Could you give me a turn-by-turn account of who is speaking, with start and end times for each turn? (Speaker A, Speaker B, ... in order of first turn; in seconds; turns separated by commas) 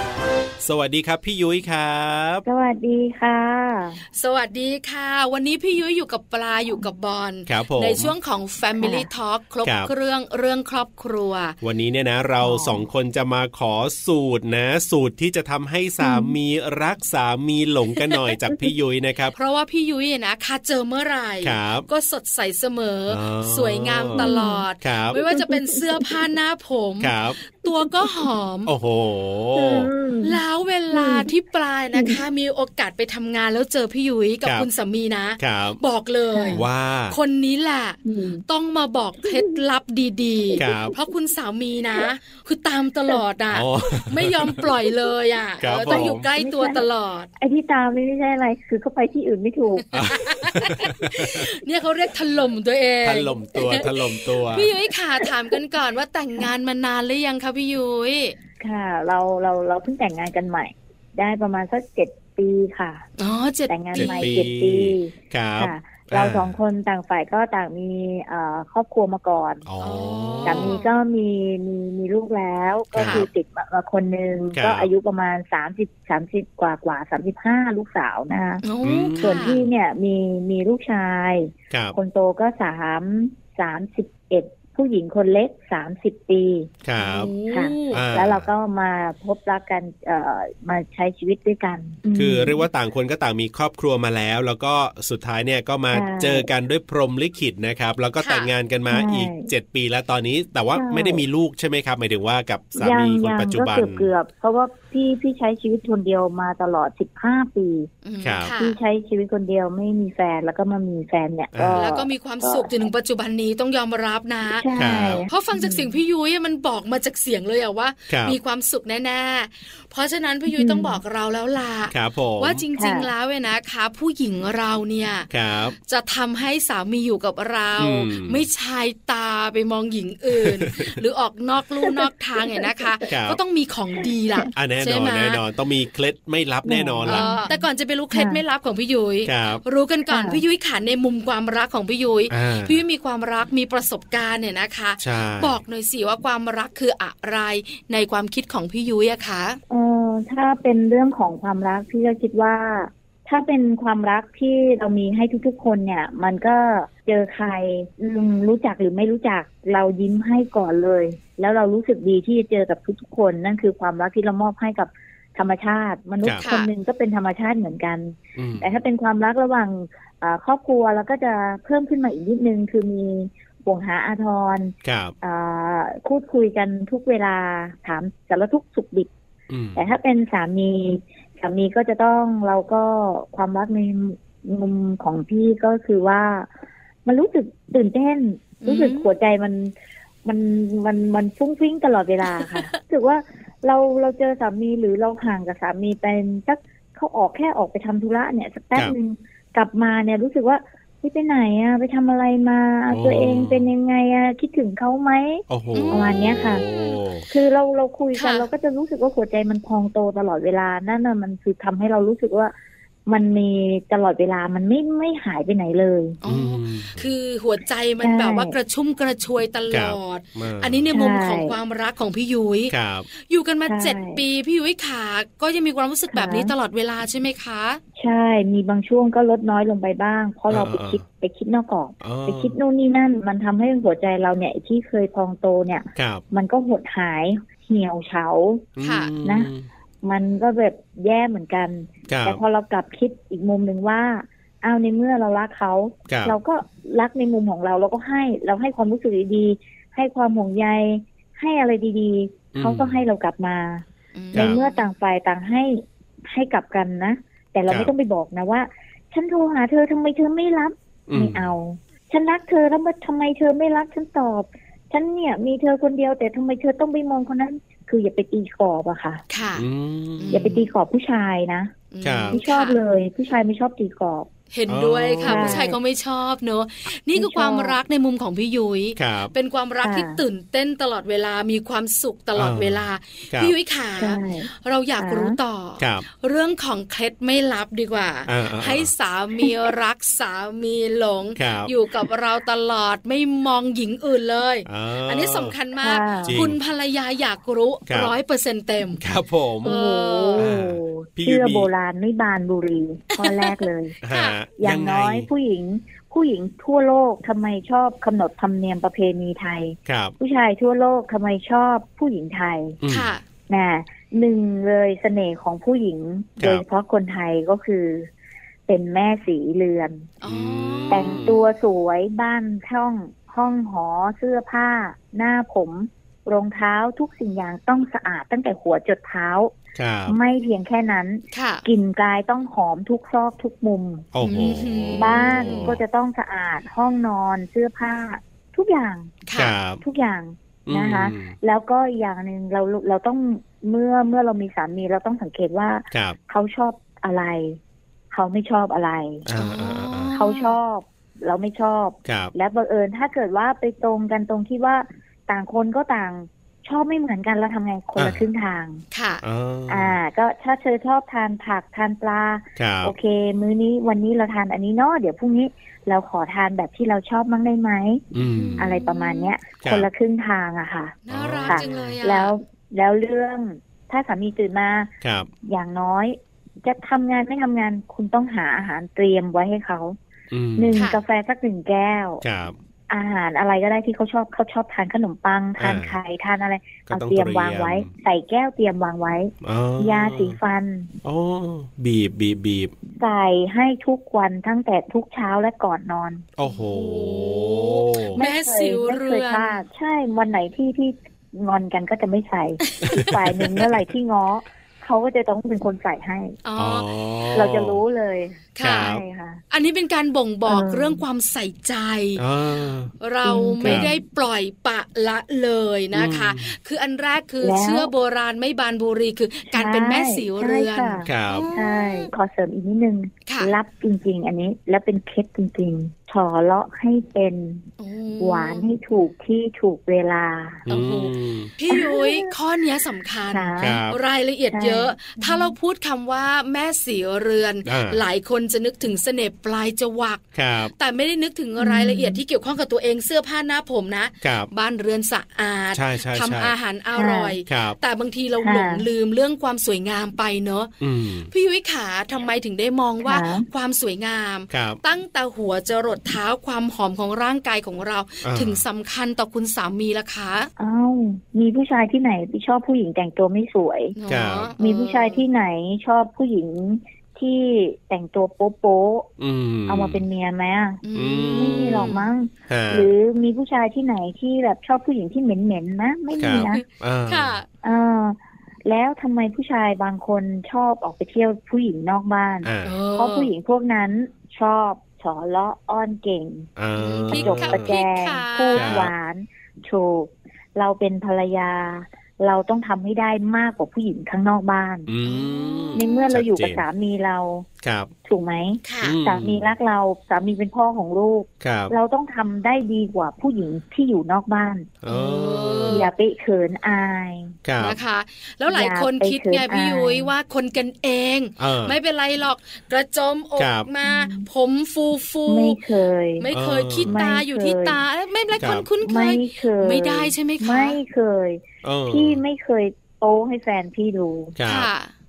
Speaker A: 0.6-2.4, Speaker B: 2.5-4.0, Speaker C: 4.2-11.6, Speaker A: 7.5-8.2, Speaker B: 8.8-9.1, Speaker A: 9.6-9.9, Speaker A: 11.6-19.4, Speaker B: 12.4-12.9, Speaker B: 16.0-16.3, Speaker C: 19.4-28.7, Speaker A: 21.4-21.9, Speaker A: 23.1-25.2, Speaker B: 24.2-26.3, Speaker A: 27.0-27.4, Speaker B: 27.7-28.2, Speaker A: 28.7-29.9, Speaker B: 29.6-31.3, Speaker C: 30.2-47.3, Speaker B: 31.9-32.2, Speaker A: 35.4-35.8, Speaker B: 36.3-36.6, Speaker A: 36.5-37.2, Speaker B: 38.0-38.4, Speaker B: 39.2-39.6, Speaker B: 40.6-40.9, Speaker A: 40.6-41.0, Speaker A: 43.5-44.7, Speaker A: 45.6-46.3, Speaker B: 45.9-46.9, Speaker B: 47.4-50.1, Speaker C: 49.9-58.4, Speaker A: 49.9-51.5, Speaker A: 53.0-54.7, Speaker B: 58.6-63.0, Speaker C: 63.2-64.4, Speaker B: 63.7-69.7, Speaker A: 64.0-66.6, Speaker A: 69.7-70.8, Speaker C: 69.8-70.9, Speaker B: 70.4-78.6, Speaker A: 73.0-73.3, Speaker C: 73.0-73.3, Speaker A: 74.5-74.9, Speaker C: 78.6-79.6, Speaker A: 78.8-79.7, Speaker B: 79.2-86.7, Speaker A: 81.7-82.0, Speaker A: 86.8-87.3, Speaker C: 87.0-88.0, Speaker B: 87.5-92.6, Speaker A: 87.9-88.5, Speaker A: 92.2-104.1, Speaker B: 95.9-96.5, Speaker C: 98.2-98.5, Speaker B: 98.9-99.5, Speaker B: 100.8-101.2, Speaker B: 102.8-107.9, Speaker C: 108.0-108.8, Speaker A: 108.2-108.5, Speaker B: 108.5-112.7, Speaker A: 111.5-111.9, Speaker C: 111.8-114.7, Speaker B: 114.5-115.9, Speaker A: 114.8-115.3, Speaker C: 115.3-135.4, Speaker A: 118.1-118.4, Speaker B: 120.5-121.0, Speaker A: 121.9-122.6, Speaker B: 122.8-123.1, Speaker A: 125.3-125.8, Speaker A: 127.8-128.5, Speaker A: 130.3-130.9, Speaker B: 131.8-132.9, Speaker A: 133.1-133.4, Speaker A: 134.5-137.3, Speaker B: 136.7-138.4, Speaker C: 137.1-149.6, Speaker A: 139.2-139.6, Speaker B: 140.1-140.4, Speaker A: 142.3-142.8, Speaker A: 145.0-145.6, Speaker B: 149.7-179.1, Speaker C: 166.4-166.7, Speaker A: 168.4-168.8, Speaker A: 174.8-175.1, Speaker A: 179.5-179.9, Speaker B: 179.8-186.5, Speaker B: 187.1-189.7, Speaker C: 188.6-189.1, Speaker B: 190.2-206.6, Speaker C: 192.2-192.7, Speaker A: 202.9-203.7, Speaker A: 205.5-207.2, Speaker C: 205.7-207.1, Speaker B: 207.3-212.5, Speaker C: 208.2-208.5, Speaker B: 213.1-216.2, Speaker C: 216.2-227.8, Speaker A: 216.2-217.1, Speaker B: 218.0-218.5, Speaker A: 219.7-220.9, Speaker B: 220.9-221.6, Speaker A: 222.7-223.1, Speaker B: 223.7-224.2, Speaker B: 226.1-226.5, Speaker B: 228.0-238.7, Speaker A: 230.5-231.0, Speaker A: 232.0-232.6, Speaker A: 236.0-236.2, Speaker A: 238.8-239.7, Speaker C: 238.8-239.1, Speaker B: 239.2-239.5, Speaker B: 240.0-269.2, Speaker A: 242.1-242.4, Speaker A: 246.1-246.4, Speaker A: 252.5-253.0, Speaker C: 254.2-254.8, Speaker A: 254.3-254.6, Speaker A: 261.1-261.5, Speaker C: 269.3-269.7, Speaker A: 269.6-270.5, Speaker C: 270.2-270.7, Speaker B: 270.3-271.7, Speaker C: 271.9-272.8, Speaker A: 272.0-272.4, Speaker B: 272.3-274.3, Speaker C: 274.5-299.0, Speaker A: 274.7-275.7, Speaker B: 275.2-275.8, Speaker B: 277.2-277.8, Speaker A: 279.0-279.3, Speaker B: 279.8-280.2, Speaker A: 282.4-283.6, Speaker B: 284.0-285.4, Speaker A: 285.8-286.1, Speaker A: 288.3-288.9, Speaker A: 291.4-291.7, Speaker A: 294.7-295.6, Speaker B: 295.8-296.4, Speaker A: 296.3-296.6, Speaker A: 297.9-298.1, Speaker A: 298.9-299.8, Speaker C: 299.6-300.5, Speaker B: 299.6-304.0, Speaker A: 300.4-301.7, Speaker C: 303.2-304.4, Speaker A: 304.0-305.3, Speaker B: 304.6-312.8, Speaker A: 309.9-310.1, Speaker A: 312.8-313.1, Speaker C: 312.9-313.2, Speaker B: 313.5-318.1, Speaker A: 316.4-316.6, Speaker B: 318.7-320.1, Speaker C: 320.2-321.3, Speaker A: 320.2-321.4, Speaker B: 320.9-329.5, Speaker A: 329.8-330.2, Speaker B: 330.1-334.1, Speaker C: 331.3-331.6, Speaker A: 334.1-335.8, Speaker C: 334.2-335.8, Speaker B: 334.9-339.1, Speaker C: 339.3-339.6, Speaker A: 339.4-339.8, Speaker B: 339.8-347.6, Speaker A: 340.7-341.4, Speaker A: 345.9-346.2, Speaker B: 348.1-349.3, Speaker A: 349.3-350.1, Speaker C: 349.4-350.6, Speaker B: 350.1-358.8, Speaker A: 352.1-352.3, Speaker A: 358.0-358.3, Speaker C: 358.9-359.2, Speaker A: 359.2-360.0, Speaker B: 359.7-368.0, Speaker A: 362.6-362.9, Speaker A: 368.1-368.7, Speaker C: 368.2-369.3, Speaker B: 368.6-374.9, Speaker A: 369.6-369.9, Speaker C: 371.1-372.3, Speaker A: 371.1-372.0, Speaker A: 375.0-375.3, Speaker B: 375.4-380.0, Speaker A: 380.3-380.9, Speaker B: 380.6-382.2, Speaker C: 380.8-381.0, Speaker A: 382.2-382.6, Speaker B: 382.9-390.9, Speaker A: 385.6-386.0, Speaker A: 386.9-387.9, Speaker A: 389.4-390.4, Speaker A: 391.0-392.7, Speaker B: 393.0-396.2, Speaker A: 396.4-398.2, Speaker C: 396.4-399.6, Speaker B: 398.2-406.4, Speaker C: 402.7-403.1, Speaker A: 402.8-403.9, Speaker C: 406.4-406.9, Speaker A: 406.6-407.8, Speaker B: 407.3-409.4, Speaker C: 408.6-409.0, Speaker A: 408.6-409.0, Speaker C: 409.5-412.2, Speaker B: 410.5-411.0, Speaker A: 412.2-412.9, Speaker C: 413.0-422.1, Speaker B: 413.2-414.0, Speaker A: 413.6-413.9, Speaker A: 415.9-416.5, Speaker B: 417.4-417.9, Speaker B: 419.5-427.7, Speaker A: 421.1-421.5, Speaker C: 423.3-423.5, Speaker C: 427.8-428.7, Speaker B: 428.2-430.7, Speaker A: 430.7-431.5, Speaker C: 430.7-450.7, Speaker B: 431.7-432.3, Speaker B: 433.3-433.8, Speaker A: 433.6-434.0, Speaker B: 434.5-435.5, Speaker A: 437.7-438.0, Speaker A: 440.4-440.7, Speaker B: 441.6-442.2, Speaker A: 444.2-444.5, Speaker A: 445.7-446.5, Speaker B: 446.9-447.4, Speaker A: 447.5-447.8, Speaker B: 448.4-448.9, Speaker A: 450.8-451.3, Speaker C: 451.3-460.5, Speaker B: 453.0-453.5, Speaker A: 454.5-454.8, Speaker A: 458.2-458.6, Speaker B: 460.6-463.9, Speaker C: 464.0-465.2, Speaker A: 464.1-464.5, Speaker B: 464.6-469.1, Speaker A: 469.2-470.1, Speaker B: 469.7-476.6, Speaker C: 470.8-472.1, Speaker A: 470.9-471.9, Speaker A: 472.5-472.9, Speaker C: 476.2-477.5, Speaker A: 476.2-477.4, Speaker B: 477.6-486.5, Speaker A: 482.4-482.8, Speaker C: 482.6-483.3, Speaker A: 486.6-487.8, Speaker C: 486.8-488.9, Speaker B: 487.1-494.9, Speaker A: 488.6-488.9, Speaker A: 494.9-496.6, Speaker C: 495.1-496.1, Speaker B: 495.8-497.5, Speaker A: 497.6-497.9, Speaker B: 498.1-504.7, Speaker C: 498.6-499.0, Speaker A: 498.8-499.5, Speaker A: 501.4-501.7, Speaker A: 504.8-505.9, Speaker C: 504.9-505.9, Speaker B: 505.7-507.4, Speaker A: 507.4-507.8, Speaker C: 507.6-515.6, Speaker B: 508.5-510.1, Speaker A: 511.4-511.8, Speaker A: 513.4-513.7, Speaker B: 513.8-514.3, Speaker B: 515.3-516.3, Speaker C: 516.2-520.8, Speaker A: 516.3-517.0, Speaker B: 516.8-517.8, Speaker A: 518.4-518.7, Speaker B: 518.8-524.4, Speaker A: 521.6-522.2, Speaker A: 524.4-524.7, Speaker C: 524.5-524.9